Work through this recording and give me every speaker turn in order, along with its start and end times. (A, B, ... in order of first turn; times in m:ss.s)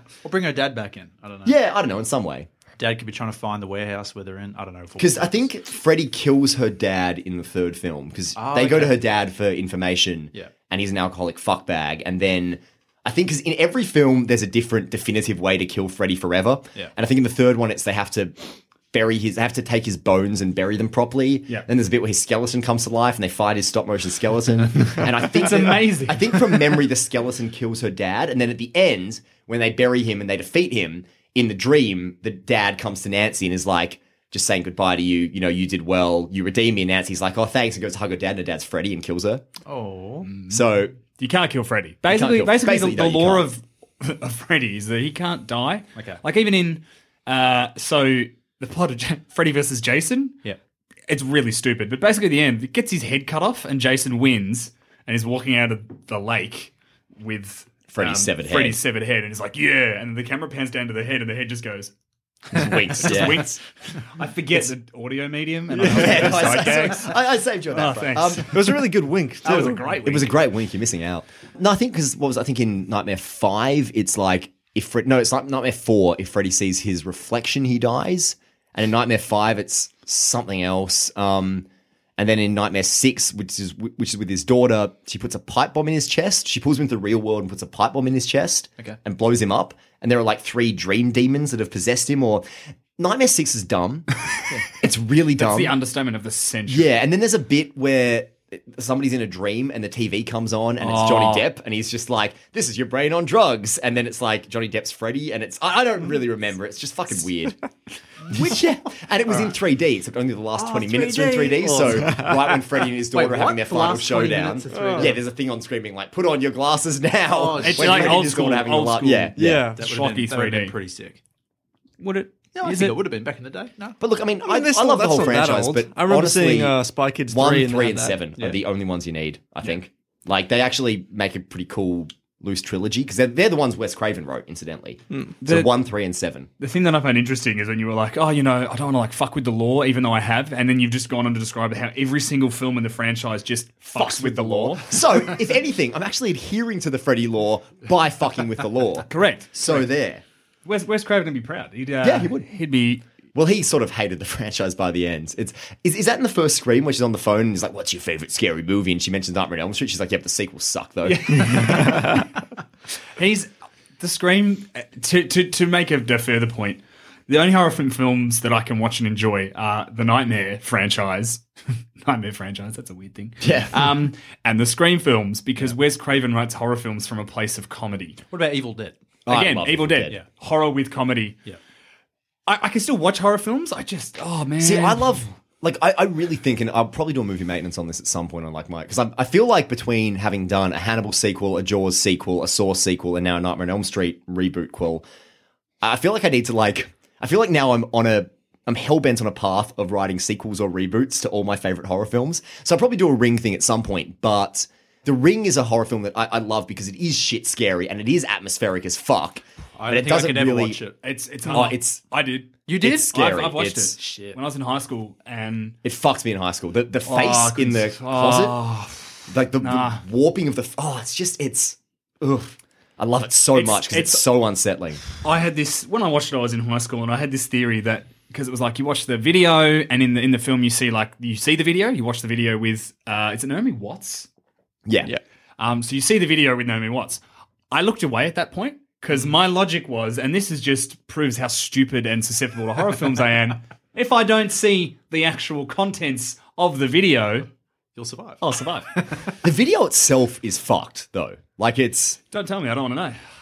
0:00.2-0:01.6 A
0:01.4-0:02.5 B
0:02.8-0:05.4 A
0:05.0-0:39.4 B
0:08.4-0:09.0 A
0:25.3-0:26.4 C
0:39.7-0:40.3 A
0:40.3-0:50.4 C
0:40.5-0:40.9 B
0:42.1-0:43.5 B
0:45.9-0:46.2 A
0:51.1-1:01.9 C
0:57.9-0:58.8 B
1:02.5-1:03.5 B
1:02.5-1:07.1 C
1:05.8-1:08.8 B
1:07.7-1:08.7 C
1:08.5-1:09.8 D
1:09.4-1:10.4 C
1:10.0-1:32.4 B
1:33.0-1:34.2 B
1:34.7-1:35.7 B
1:35.4-1:36.9 C
1:36.7-1:47.6 B
1:40.8-1:41.5 C
1:48.3-1:59.7 B
1:50.8-1:52.6 A
1:50.9-1:52.0 C
1:53.1-1:55.2 A
1:54.7-1:55.1 D
1:57.3-1:58.5 A
1:57.6-2:00.8 C
1:59.4-1:59.8 D
1:59.5-2:01.2 A
2:02.0-2:03.0 C
2:02.5-2:04.0 A
2:04.0-2:16.5 B
2:04.4-2:08.2 D
2:15.4-2:15.7 C
2:16.6-2:25.3 C
2:23.9-2:30.2 B
2:29.1-2:29.8 C
2:30.6-2:33.0 C
2:32.0-2:32.5 B
2:33.3-2:41.8 B
2:41.0-2:42.4 C
2:43.2-2:58.2 C
2:53.4-2:53.9 B
2:58.3-2:59.0 A
2:59.2-3:00.1 B
2:59.3-3:01.4 C
3:02.5-3:05.2 C
3:04.6-3:15.0 B
3:15.8-3:30.8 B
3:29.8-3:31.0 A
3:31.0-3:35.8 C
3:31.5-3:32.0 B
3:32.7-3:33.0 A
3:32.7-3:33.9 B
3:34.0-3:34.4 A
3:35.8-3:38.6 B
3:37.0-3:40.0 C
3:39.3-3:45.0 B
3:43.5-3:44.2 C
3:45.2-3:54.3 C
3:54.8-3:55.1 B
3:55.6-4:07.5 C
4:07.9-4:08.4 A
4:08.4-4:09.0 C
4:08.9-4:09.3 A
4:09.4-4:12.2 B
4:12.3-4:13.2 C